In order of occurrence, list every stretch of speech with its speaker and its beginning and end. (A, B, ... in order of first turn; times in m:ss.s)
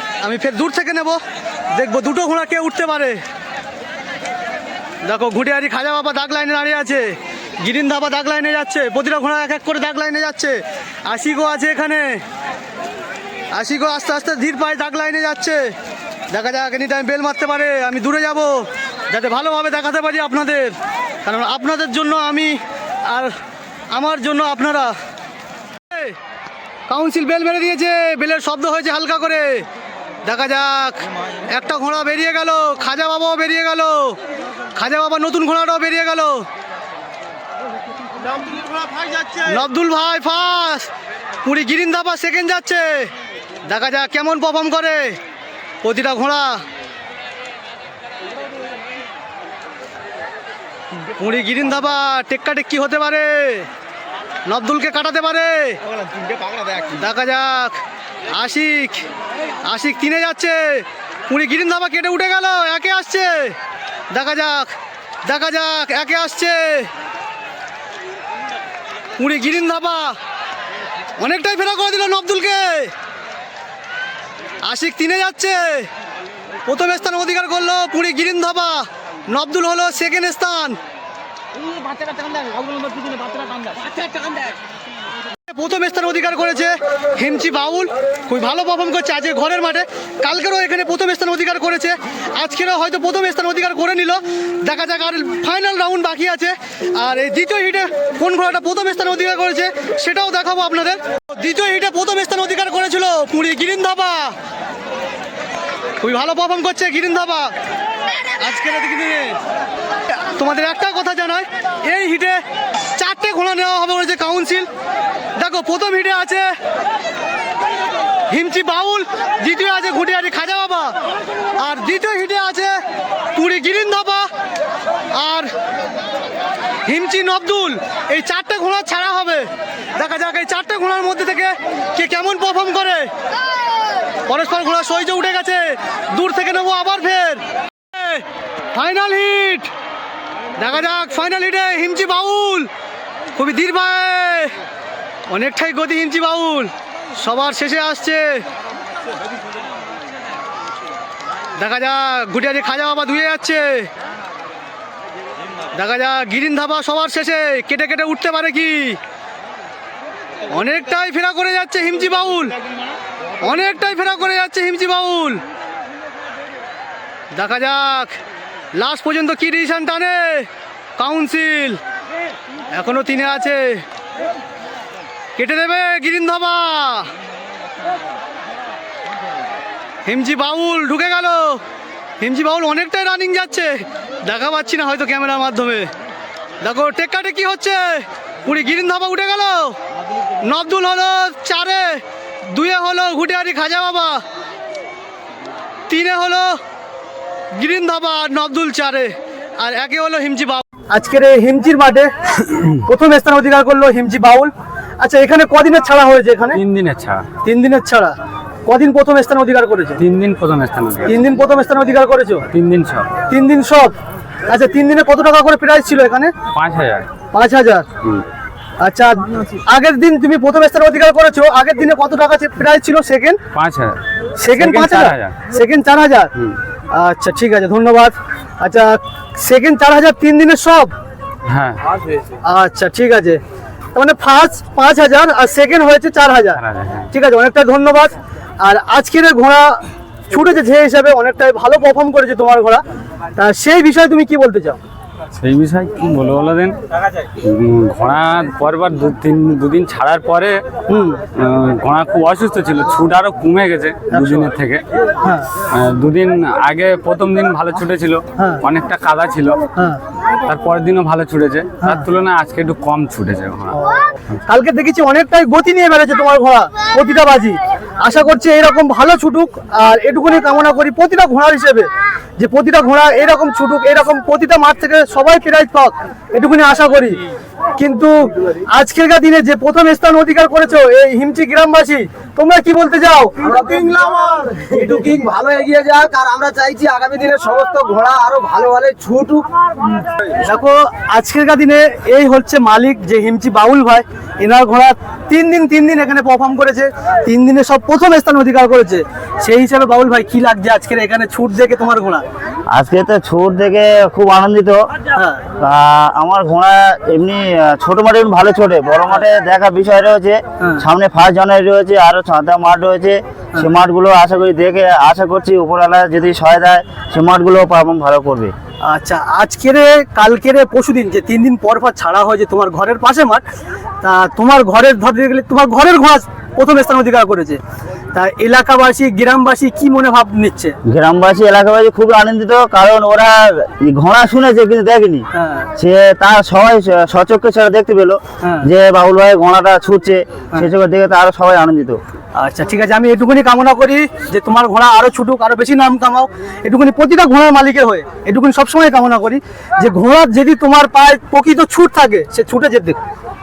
0:00.2-0:01.2 A
0:01.7-0:03.2 A
0:05.0-0:12.2 A
0:13.5-0:15.7 A
0:16.3-0:23.3 A
0:23.9-0:25.0 A
0:25.9-0:26.2 A
0:26.9-0:29.7 A
0:30.2-0:34.2 A
0:34.8-0:36.5 A
0:39.4-0:40.9 A
0:41.4-0:43.1 A
0:43.7-0:45.2 A
0:45.8-0:46.6 A
0:51.1-0:53.7 A
0:54.5-0:55.8 A
0:56.1-0:56.9 B
0:57.0-0:59.1 A
0:59.6-1:03.6 A
1:04.1-1:06.9 A
1:09.2-1:10.2 A
1:11.2-1:12.9 A
1:14.6-1:15.9 A
1:16.7-1:20.8 A
1:21.6-1:24.5 B
1:25.5-1:44.4 A
1:46.0-1:47.5 A
1:48.4-1:49.4 A
1:50.2-1:52.4 A
1:53.0-1:54.7 A
1:55.4-1:56.5 A
1:58.3-2:01.0 A
2:01.6-2:02.8 A
2:03.4-2:04.3 A
2:05.1-2:05.5 A
2:06.9-2:13.1 A
2:14.3-2:19.7 A
2:20.6-2:22.7 A
2:23.4-2:24.6 A
2:25.3-2:28.4 A
2:31.6-2:33.9 A
2:35.7-2:39.0 A
2:40.5-2:42.5 A
2:43.4-2:45.4 A
2:47.3-2:48.2 A
2:48.8-2:51.8 A
2:52.7-2:53.8 A
2:55.4-2:57.1 A
3:00.1-3:01.6 A
3:02.2-3:05.9 A
3:06.6-3:09.8 A
3:10.4-3:14.2 A
3:15.9-3:16.6 A
3:17.5-3:22.1 A
3:22.7-3:26.6 A
3:26.5-3:27.3 C
3:27.4-3:30.0 A
3:30.0-3:31.1 C
3:31.1-3:32.5 A
3:32.5-3:33.2 C
3:33.3-3:34.0 A
3:34.5-3:36.3 A
3:36.5-3:37.1 C
3:37.3-3:37.9 A
3:38.8-3:43.4 A
3:43.5-3:44.0 C
3:44.4-3:46.3 A
3:44.6-3:45.4 C
3:46.9-3:50.9 A
3:51.5-3:51.8 C
3:52.4-3:53.4 A
3:54.0-3:56.6 A
3:56.6-3:57.1 C
3:57.1-4:02.8 A
4:03.4-4:04.8 A
4:05.4-4:06.8 C
4:07.4-4:10.6 C
4:10.9-4:11.2 A
4:11.4-4:14.8 C
4:14.1-4:14.5 A
4:15.2-4:15.5 A
4:15.7-4:19.7 C
4:18.4-4:18.6 A
4:20.4-4:23.8 C
4:21.8-4:22.1 A
4:23.7-4:37.2 A
4:37.8-4:43.3 A
4:43.4-4:49.5 B
4:50.4-5:02.2 A
5:02.7-5:04.8 D
5:05.2-5:05.4 A
5:05.6-5:18.5 D
5:18.8-5:23.4 A
5:24.0-5:27.6 A
5:28.1-5:30.8 A
5:30.8-5:42.0 D
5:35.3-5:35.7 A
5:38.4-5:38.7 A
5:42.4-5:53.0 A